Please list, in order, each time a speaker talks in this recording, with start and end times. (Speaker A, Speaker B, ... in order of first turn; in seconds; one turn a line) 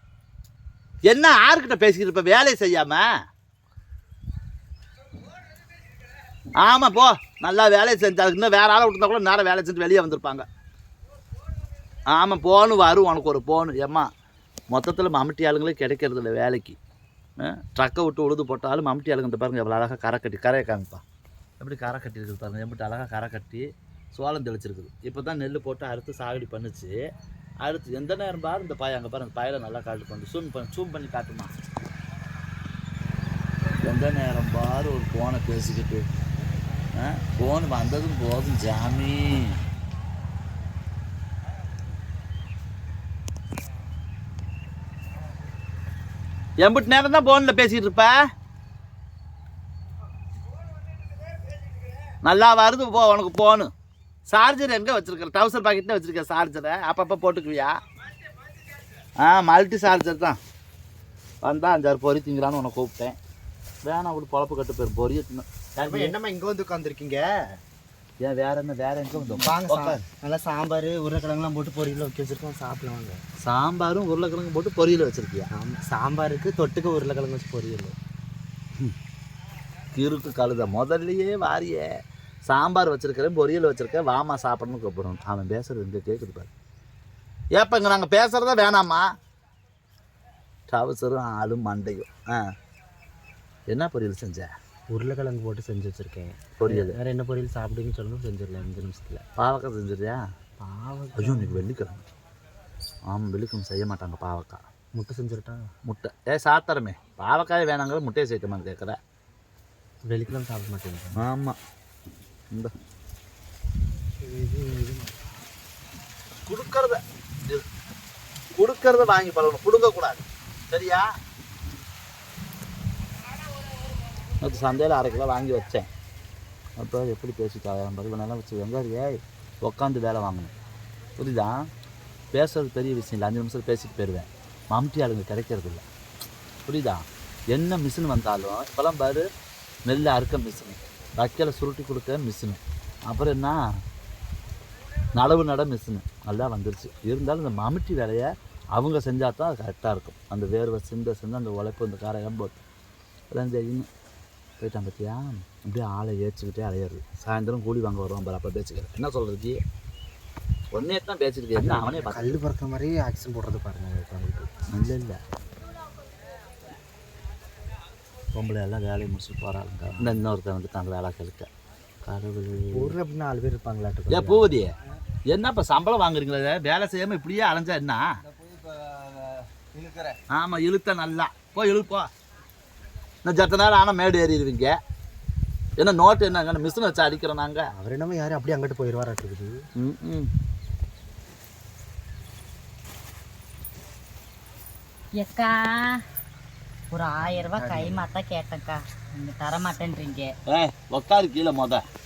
Speaker A: 1.1-3.0
Speaker A: 6.6-10.4
Speaker A: 12.1-14.1
Speaker A: 14.7-16.8
Speaker A: 17.4-21.0
Speaker A: 21.6-26.9
Speaker A: 27.6-31.5
Speaker A: 33.8-36.1
Speaker A: 36.9-39.6
Speaker A: 46.6-48.1
Speaker A: 52.2-53.7
Speaker A: 54.3-57.7
Speaker A: 59.2-60.4
Speaker A: 61.4-63.1
Speaker A: 63.8-66.1
Speaker B: 65.8-67.6
Speaker A: 68.2-70.0
Speaker B: 69.2-73.2
Speaker A: 73.4-75.5
Speaker B: 75.5-77.9
Speaker A: 79.9-81.9
Speaker A: 82.5-86.5
Speaker A: 87.5-89.0
Speaker A: 90.7-92.4
Speaker A: 93.7-94.5
Speaker B: 94.9-99.2
Speaker A: 96.6-97.0
Speaker A: 99.4-100.2
Speaker B: 100.6-101.6
Speaker A: 101.2-102.0
Speaker A: 103.1-104.6
Speaker B: 104.9-105.7
Speaker A: 105.8-109.0
Speaker B: 110.0-111.2
Speaker A: 111.2-111.6
Speaker B: 114.2-115.2
Speaker A: 116.5-117.6
Speaker A: 118.5-121.0
Speaker A: 124.4-125.8
Speaker A: 126.8-130.5
Speaker A: 131.2-131.5
Speaker A: 132.3-135.8
Speaker A: 136.7-139.2
Speaker A: 139.9-143.6
Speaker A: 145.2-152.6
Speaker A: 153.3-153.9
Speaker A: 154.6-159.6
Speaker A: 160.7-162.4
Speaker B: 161.6-164.5
Speaker A: 164.7-165.2
Speaker A: 168.3-171.5
Speaker A: 172.0-172.9
Speaker B: 172.7-174.6
Speaker A: 174.1-174.7
Speaker A: 175.3-178.0
Speaker A: 180.3-182.1
Speaker A: 183.2-184.7
Speaker A: 185.8-187.7
Speaker B: 187.7-189.6
Speaker A: 189.8-190.3
Speaker C: 195.2-196.0
Speaker C: 196.9-200.3
Speaker B: 197.2-198.1
Speaker A: 200.5-201.8